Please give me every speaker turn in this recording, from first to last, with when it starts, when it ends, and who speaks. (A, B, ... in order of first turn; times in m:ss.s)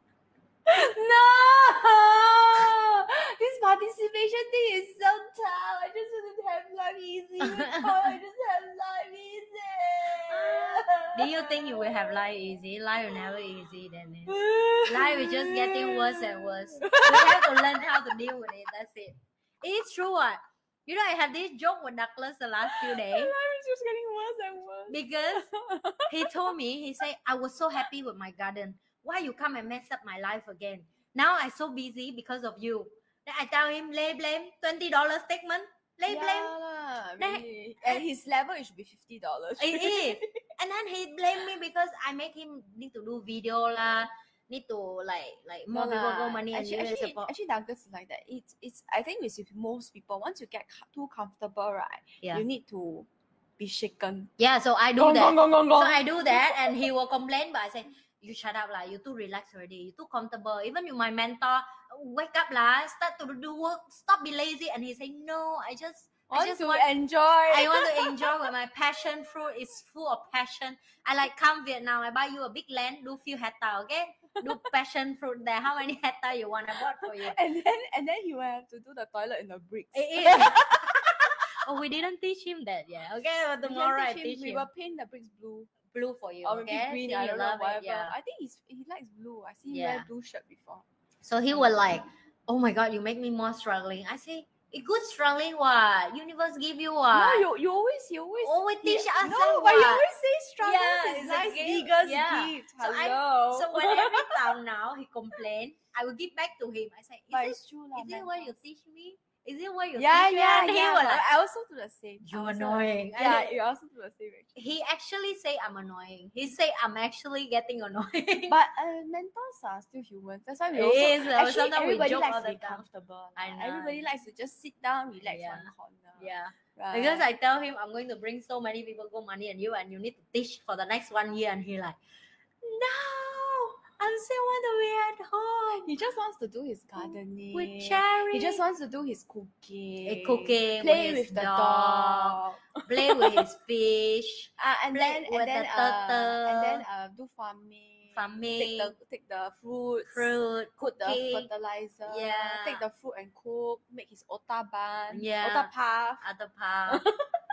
0:00.7-0:12.2 A
0:07.4-0:08.2 B
0:10.3-0:23.3 B
0:14.3-0:17.8 A
0:22.6-0:26.3 A
0:24.9-0:25.5 B
0:26.1-0:36.6 B
0:36.1-0:40.4 A
0:37.2-0:38.0 B
0:39.6-0:47.3 B
0:45.7-0:53.1 A
0:53.6-0:54.3 A
0:54.4-1:06.9 B
0:55.0-0:56.9 A
1:06.3-1:08.4 A
1:07.5-1:17.4 B
1:17.0-1:21.2 A
1:19.9-1:21.1 B
1:21.6-1:24.7 B
1:23.6-1:25.7 A
1:25.9-1:28.1 B
1:26.4-1:30.8 A
1:29.7-1:30.1 B
1:31.2-1:37.4 B
1:31.5-1:31.8 A
1:37.1-1:44.4 A
1:38.4-1:40.0 B
1:40.6-1:51.3 B
1:47.3-1:48.5 A
1:50.0-1:54.6 A
1:52.2-1:53.6 B
1:54.6-1:58.6 B
1:58.5-2:07.3 A
2:00.7-2:02.8 B
2:03.4-2:04.1 B
2:05.2-2:12.0 B
2:12.6-2:15.9 B
2:15.8-2:23.4 A
2:17.0-2:18.6 B
2:20.1-2:26.8 B
2:24.6-2:36.3 A
2:28.1-2:28.9 B
2:30.0-2:31.5 B
2:32.1-2:32.8 B
2:35.1-2:37.0 B
2:36.9-2:37.2 A